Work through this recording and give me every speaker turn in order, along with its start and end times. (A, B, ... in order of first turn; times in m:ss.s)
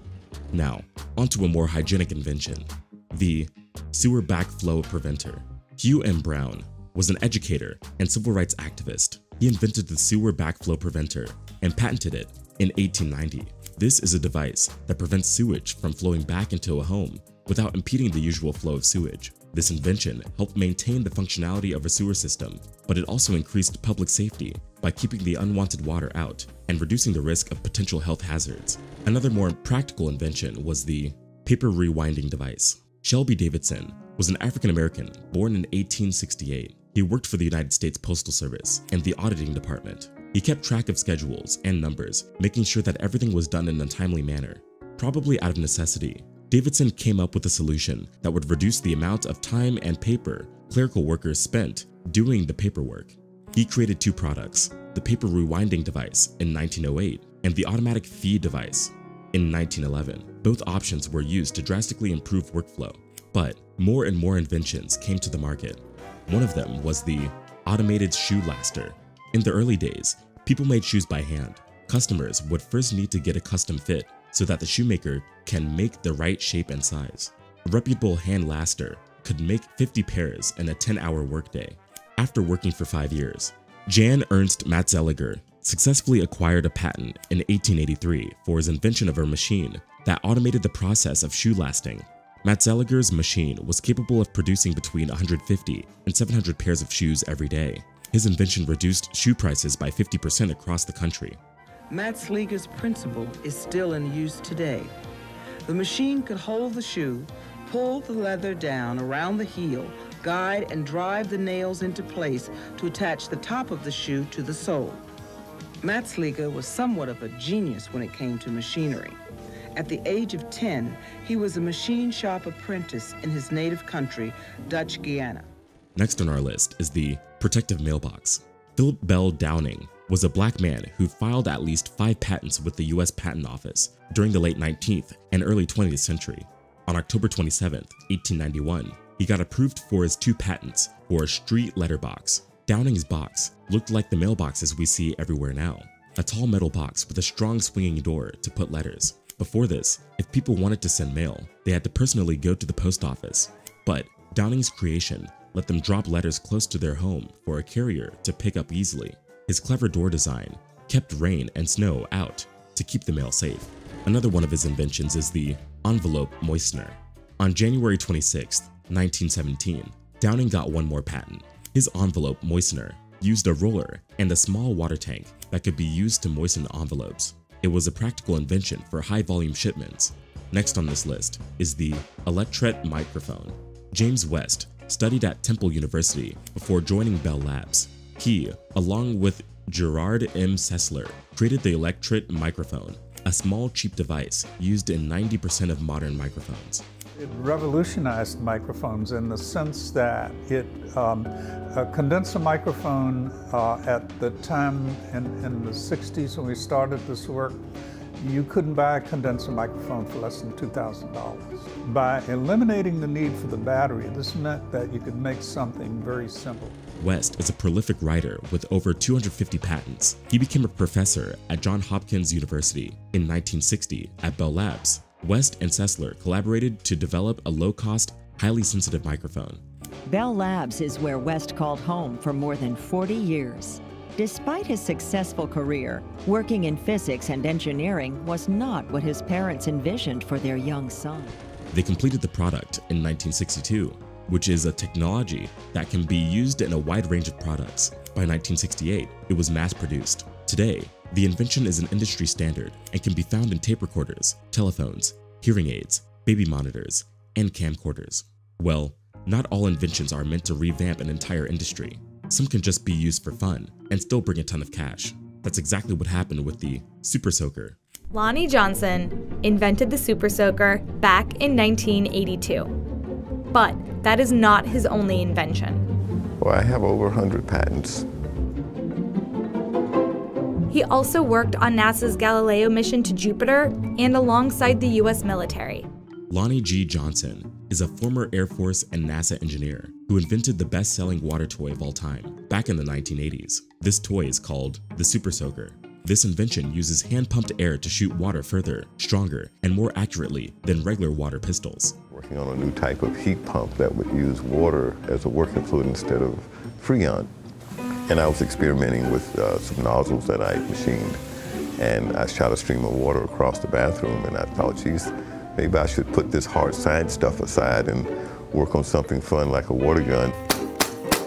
0:00.5-1:41.4 A
1:41.9-1:44.9 B
1:45.6-1:55.0 B
1:55.8-1:59.2 B
1:59.7-2:05.5 B
2:06.0-3:16.8 A
3:17.2-3:27.6 C
3:28.2-3:36.8 C
3:37.0-3:49.6 A
3:50.0-4:01.4 D
4:01.7-4:27.8 A
4:28.1-4:32.8 E
4:33.5-4:35.8 E
4:36.4-4:38.1 F
4:40.7-4:45.9 E
4:46.3-5:02.0 A
5:02.1-5:07.3 F
5:08.1-5:11.2 F
5:11.8-5:20.4 F